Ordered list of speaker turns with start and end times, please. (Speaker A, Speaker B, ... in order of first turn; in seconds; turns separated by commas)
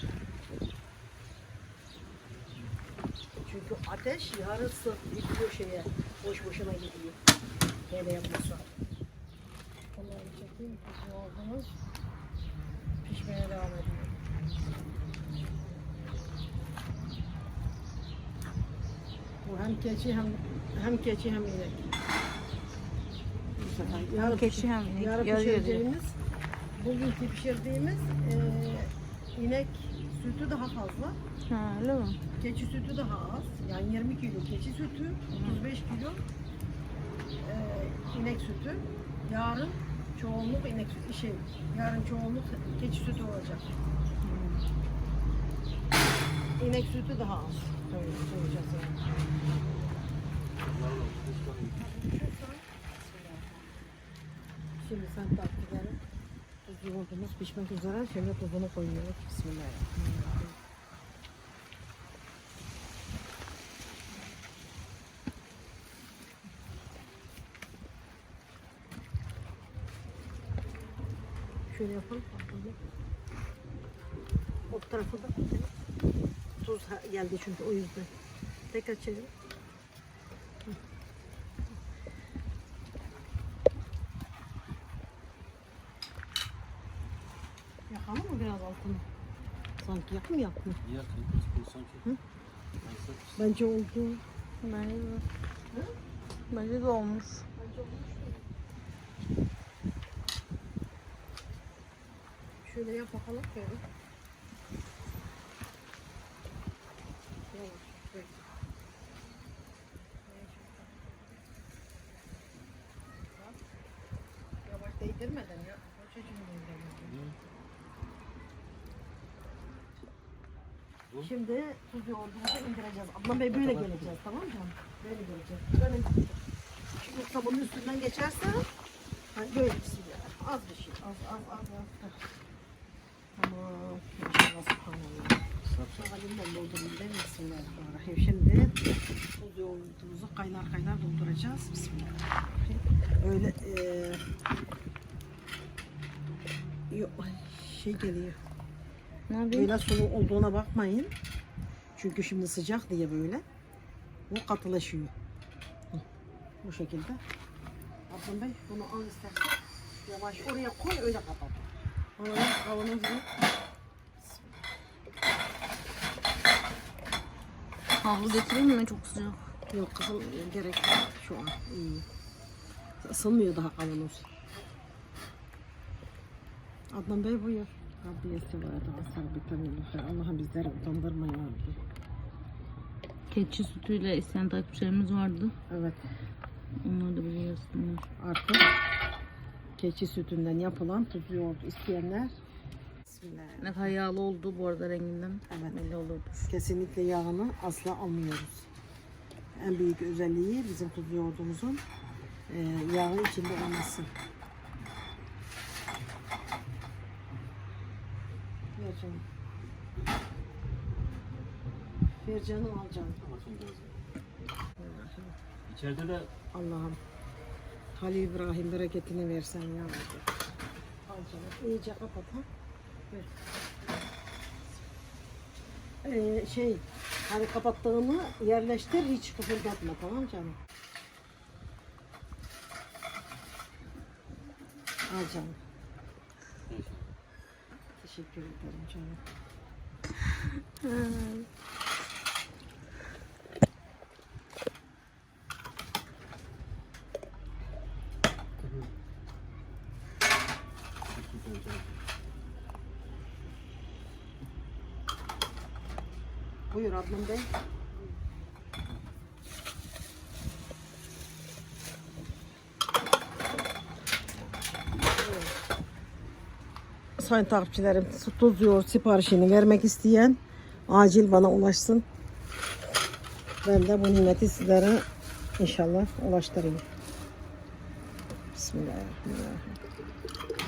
Speaker A: 3.4-7.2, Speaker A: 7.9-8.8, Speaker A: 9.9-11.8, Speaker A: 13.0-14.2, Speaker A: 19.4-21.8, Speaker A: 23.6-26.2, Speaker B: 23.8-25.9, Speaker A: 26.8-31.2, Speaker B: 31.5-32.2, Speaker A: 32.4-36.2, Speaker B: 35.3-35.6, Speaker A: 37.4-43.7, Speaker B: 44.2-44.6, Speaker A: 46.6-49.1, Speaker C: 50.7-51.8, Speaker A: 51.8-53.7, Speaker A: 54.8-56.0, Speaker A: 56.6-60.6, Speaker A: 71.7-72.8, Speaker A: 74.7-75.8, Speaker A: 76.6-78.1, Speaker A: 78.7-79.3, Speaker A: 87.9-89.1, Speaker A: 89.8-90.8, Speaker C: 90.8-92.0, Speaker C: 92.8-93.4, Speaker A: 93.4-94.2, Speaker B: 94.6-95.2, Speaker B: 96.5-97.5, Speaker A: 97.5-98.5, Speaker A: 102.6-103.8, Speaker A: 107.5-108.3, Speaker A: 110.3-111.1, Speaker A: 113.3-113.6, Speaker A: 114.7-117.4, Speaker C: 117.0-117.4, Speaker A: 121.2-126.3, Speaker C: 123.5-124.2, Speaker A: 127.0-128.7, Speaker A: 129.3-132.2, Speaker A: 133.4-135.4, Speaker C: 135.6-136.1, Speaker A: 135.9-138.8, Speaker A: 139.4-144.2, Speaker A: 146.9-148.4, Speaker B: 149.3-149.7, Speaker A: 149.5-151.1, Speaker A: 151.9-153.4, Speaker A: 154.3-155.1, Speaker A: 156.6-157.2, Speaker A: 158.1-163.3, Speaker A: 164.2-164.6, Speaker B: 168.0-169.5, Speaker A: 169.7-172.1, Speaker A: 173.0-174.3, Speaker A: 176.9-181.8, Speaker B: 183.3-185.6, Speaker A: 185.7-186.1, Speaker B: 186.8-188.1, Speaker A: 188.2-188.6, Speaker A: 189.8-192.3, Speaker A: 193.1-193.9, Speaker B: 193.6-196.4, Speaker A: 195.5-195.8, Speaker A: 196.4-198.7, Speaker A: 199.6-201.8, Speaker A: 202.5-204.1, Speaker A: 208.8-209.2, Speaker A: 212.1-213.2, Speaker C: 213.2-214.0, Speaker A: 214.8-215.3, Speaker C: 215.7-216.3, Speaker A: 216.5-217.0, Speaker A: 218.0-220.3, Speaker A: 221.1-222.5, Speaker A: 226.0-230.6, Speaker A: 235.1-235.6, Speaker C: 236.7-237.1, Speaker A: 238.0-239.2, Speaker B: 240.8-241.5, Speaker C: 248.6-248.9, Speaker C: 251.1-252.0, Speaker A: 256.7-258.1, Speaker A: 265.2-265.6, Speaker A: 267.2-272.1, Speaker A: 273.6-275.1, Speaker A: 275.6-276.9, Speaker A: 278.5-279.8